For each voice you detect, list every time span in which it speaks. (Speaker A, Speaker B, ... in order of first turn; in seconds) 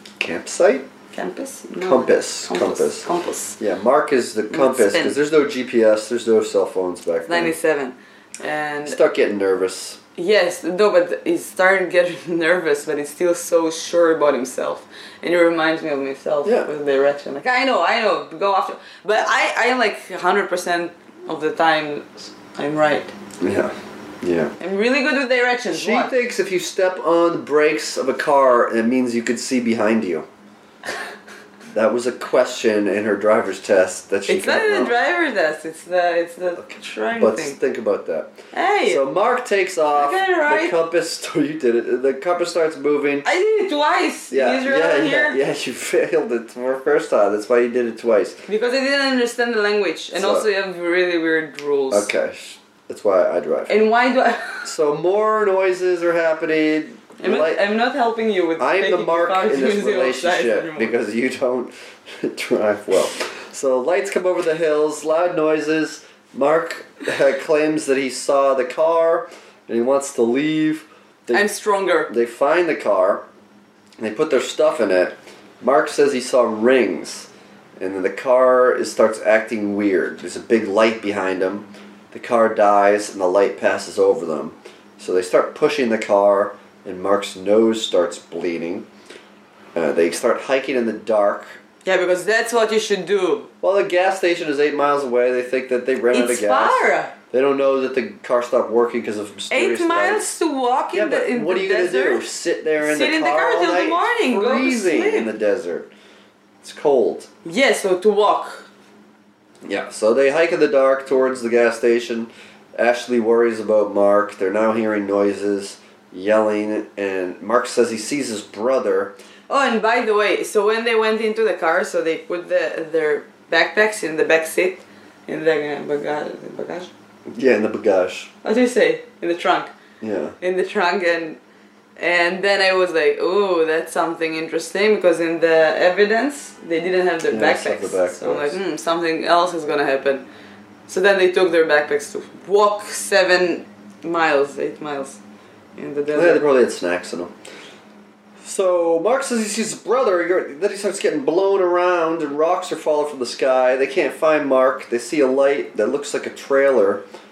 Speaker A: 0.2-0.9, 1.8-3.1, 3.6-7.5, 8.8-10.0, 16.4-16.7, 23.4-24.5, 25.7-30.3, 31.7-34.9, 37.1-43.3, 44.3-48.4, 50.1-50.5, 51.9-53.7, 54.6-57.6, 58.6-71.5, 72.1-73.2, 74.0-88.9, 89.7-91.6, 93.6-100.3, 100.9-105.9, 106.6-107.3, 109.7-119.1, 127.3-128.3, 130.0-130.3, 137.3-138.6, 146.1-147.3, 148.4-157.0
Speaker B: 1.1-3.6, 4.5-5.2, 7.3-9.0, 10.2-23.1, 24.6-26.1, 34.3-37.6, 38.5-39.0, 39.9-40.8, 43.2-45.4, 48.5-52.1, 53.7-54.7, 57.2-60.9, 71.3-72.1, 91.8-93.5, 96.1-97.1, 99.5-105.3, 107.4-108.7, 119.5-126.9, 128.4-129.7, 130.4-131.4, 132.0-140.2, 140.9-145.2, 145.8-146.5